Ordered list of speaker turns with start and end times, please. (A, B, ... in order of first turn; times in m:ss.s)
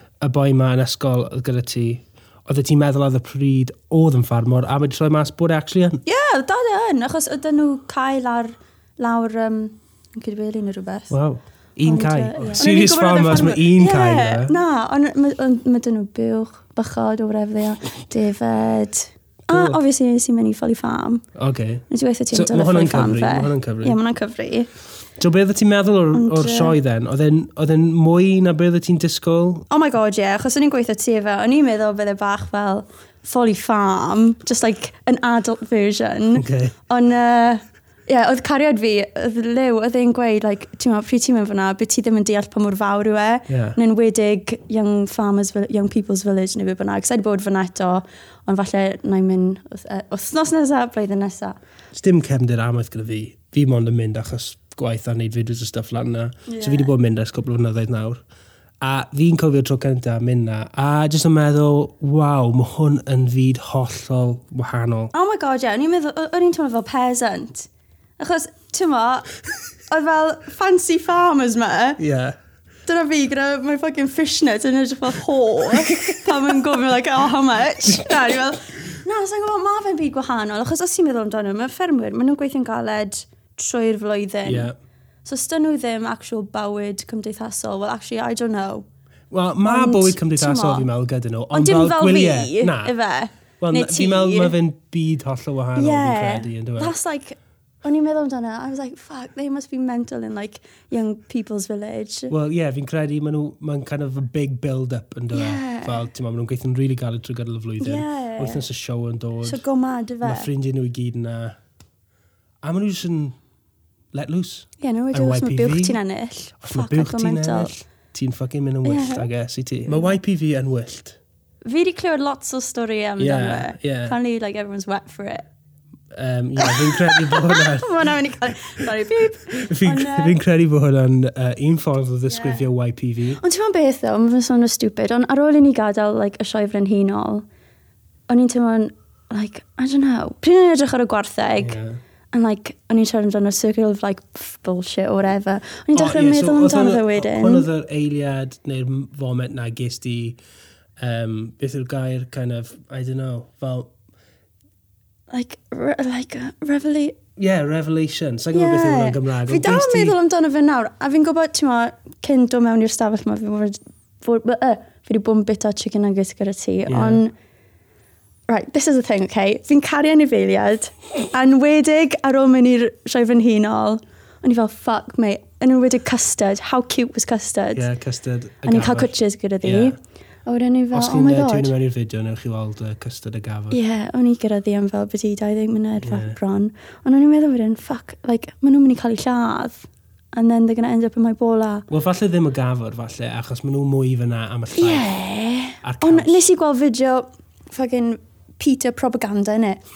0:00.2-0:06.0 A
0:06.0-0:11.1 B
0:11.1-0:14.6 A
0:11.8-0:21.2 B
0:19.5-0:19.8 A
0:21.4-0:24.0 A
0:21.9-0:24.7 B
0:25.2-0:29.7 A
0:26.1-0:26.8 B
0:29.7-0:51.6 B
0:36.3-0:36.8 A
0:43.5-0:43.8 A
0:51.9-0:58.2 A
0:56.5-0:56.9 B
0:58.8-1:05.1 A
1:05.1-1:09.3 B
1:09.9-1:12.0 B
1:12.0-1:12.4 A
1:12.9-1:24.7 B
1:15.9-1:16.3 A
1:17.9-1:18.2 A
1:24.4-1:24.7 A
1:25.2-1:28.9 B
1:29.3-1:32.9 A
1:29.6-1:30.9 B
1:31.5-1:34.6 B
1:33.6-1:37.0 A
1:35.8-1:42.3 B
1:42.3-1:49.6 A
1:45.3-1:46.1 B
1:47.8-1:48.6 B
1:49.4-1:50.5 B
1:50.2-1:51.6 A
1:52.6-1:53.4 A
1:54.1-1:56.0 A
1:54.8-1:57.7 B
1:56.6-2:01.2 A
1:58.8-1:59.3 B
2:01.6-2:05.5 B
2:03.2-2:04.2 A
2:06.1-2:13.4 A
2:06.6-2:10.4 B
2:12.3-2:12.6 B
2:13.4-2:17.4 B
2:18.3-2:21.8 B
2:21.6-2:22.0 A
2:22.3-2:27.7 B
2:26.0-2:30.4 A
2:31.0-2:33.9 A
2:35.3-2:37.2 B
2:37.4-2:40.2 A
2:38.5-2:47.3 B
2:46.9-2:47.2 A
2:48.5-2:57.8 B
2:57.7-3:00.0 A
2:58.6-3:01.7 B
3:00.9-3:03.8 A
3:03.7-3:11.9 B
3:06.0-3:06.4 A
3:11.9-3:15.1 A
3:14.8-3:19.8 B
3:15.8-3:16.4 A